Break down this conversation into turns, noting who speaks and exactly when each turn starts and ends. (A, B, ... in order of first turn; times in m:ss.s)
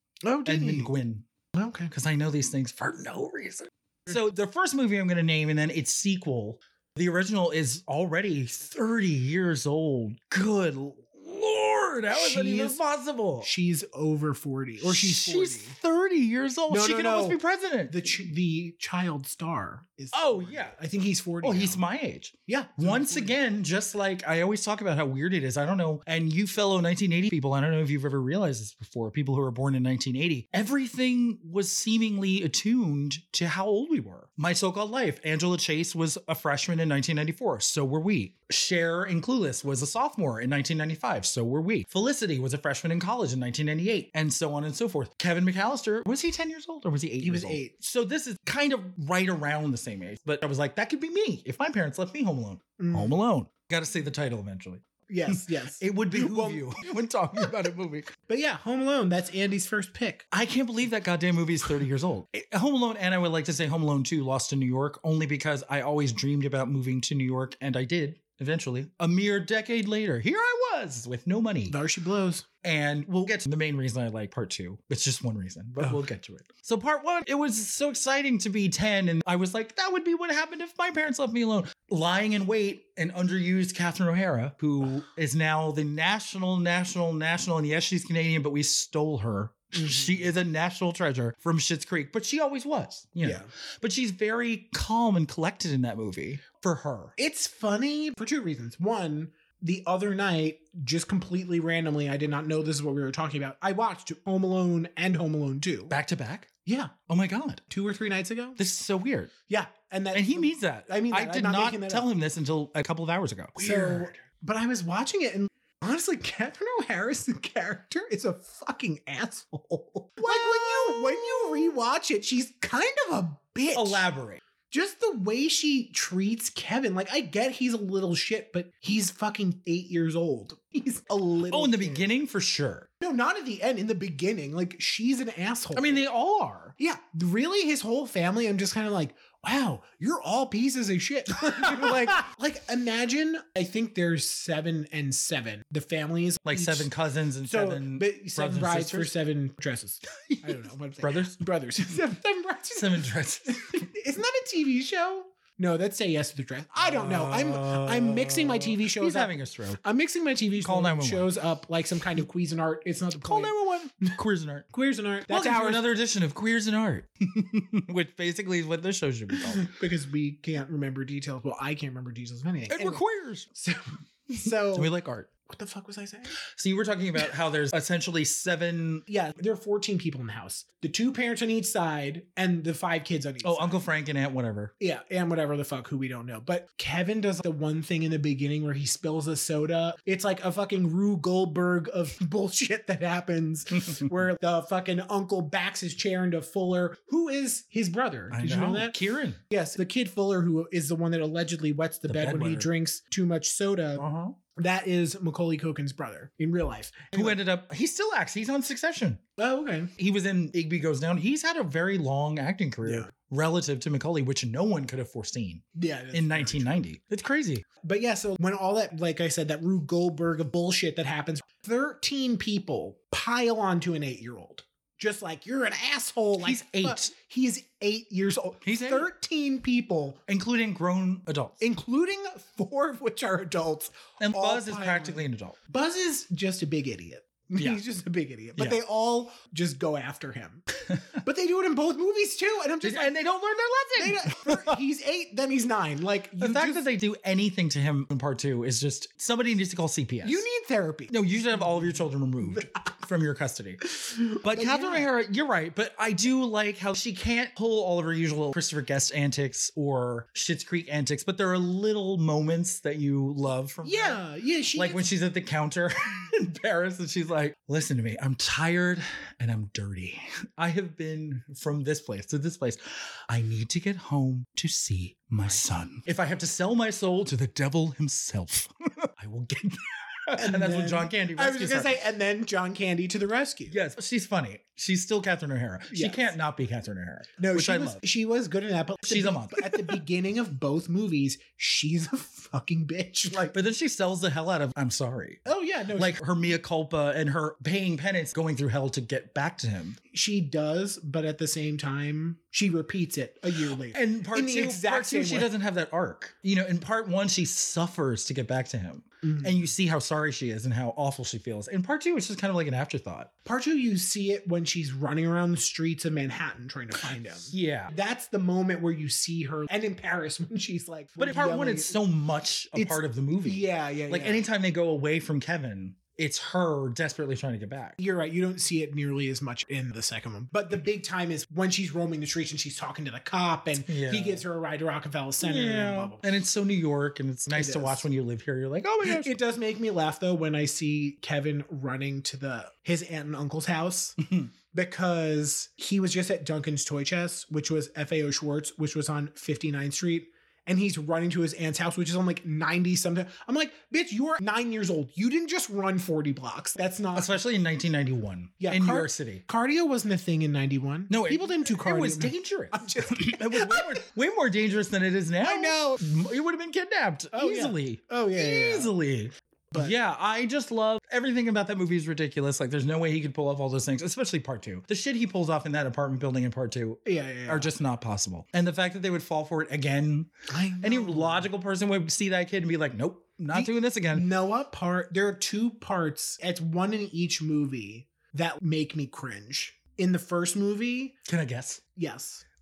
0:00.2-0:00.9 A
0:00.5-0:01.3 B
0:01.5-0:01.9 A
0:01.9-0:13.5 B
0:12.1-0:12.8 A
0:13.4-0:15.8 A
0:14.8-0:18.1 B
0:16.7-0:21.8 A
0:20.1-0:20.8 B
0:21.4-0:58.1 B
0:22.5-0:23.4 A
0:47.2-0:47.7 A
0:52.8-0:53.2 A
0:55.1-0:56.6 A
0:58.3-1:00.3 A
1:00.3-1:11.8 B
1:11.7-1:12.5 A
1:12.6-1:37.2 B
1:29.8-1:30.1 A
1:33.2-1:33.5 A
1:37.2-1:46.0 A
1:45.9-1:46.5 B
1:46.6-1:46.9 A
1:47.1-1:47.6 B
1:47.7-1:48.6 A
1:48.6-1:49.3 B
1:49.5-1:52.1 A
1:50.1-1:54.1 B
1:53.6-2:04.1 A
2:00.2-2:01.8 B
2:03.7-2:04.4 B
2:04.7-2:12.1 A
2:11.5-2:12.9 B
2:13.0-2:16.0 A
2:15.7-2:16.8 B
2:16.8-2:26.9 A
2:21.5-2:22.2 B
2:26.5-2:29.1 B
2:27.4-2:44.2 A
2:30.2-2:31.4 B
2:32.8-2:33.9 B
2:36.8-2:39.8 B
2:40.6-2:41.3 B
2:43.2-2:44.7 B
2:44.7-2:45.9 A
2:45.3-2:49.7 B
2:49.4-2:54.9 A
2:52.7-2:53.5 B
2:54.4-2:55.3 B
2:55.5-2:56.4 A
2:56.5-2:59.1 B
2:59.1-3:03.8 A
3:03.4-3:04.7 B
3:04.8-3:19.0 A
3:18.3-3:19.4 B
3:19.5-3:27.4 A
3:22.1-3:22.7 B
3:24.0-3:24.4 B
3:27.1-3:29.2 B
3:29.4-3:29.9 A
3:30.0-3:37.6 B
3:32.8-3:33.1 A
3:35.8-3:36.8 A
3:37.8-3:50.2 A
3:46.4-3:47.1 B
3:48.6-3:49.1 B
3:50.3-3:51.6 B
3:51.6-4:00.6 A
3:54.2-3:55.6 B
4:01.2-4:03.2 A
4:02.8-4:04.8 B
4:04.0-4:06.8 A
4:06.4-4:10.4 B
4:10.2-4:12.7 A
4:11.1-4:13.8 B
4:13.9-4:15.1 A
4:14.4-4:24.2 B
4:23.8-4:25.1 A
4:24.8-4:42.0 B
4:40.4-4:43.8 A
4:43.7-4:48.0 B
4:45.9-4:46.3 A
4:47.4-4:53.6 A
4:49.1-4:50.0 B
4:53.3-4:55.4 B
4:55.4-4:56.2 A
4:55.9-5:00.0 B
5:00.1-5:05.5 A
5:03.7-5:13.3 B
5:09.2-5:09.7 A
5:13.4-5:22.0 A
5:17.5-5:17.9 B
5:21.2-5:28.0 B
5:22.8-5:24.4 A
5:28.0-5:36.2 A
5:33.9-5:34.4 B
5:35.4-5:39.4 B
5:37.5-5:38.1 A
5:39.0-5:57.4 A
5:44.2-5:44.5 B
5:57.2-5:59.4 B
5:58.6-6:04.0 A
6:01.1-6:24.3 B
6:05.4-6:06.0 A
6:07.3-6:08.9 A
6:17.0-6:17.7 A
6:20.5-6:21.5 A
6:23.5-6:31.2 A
6:31.2-6:31.8 B
6:32.0-6:32.4 A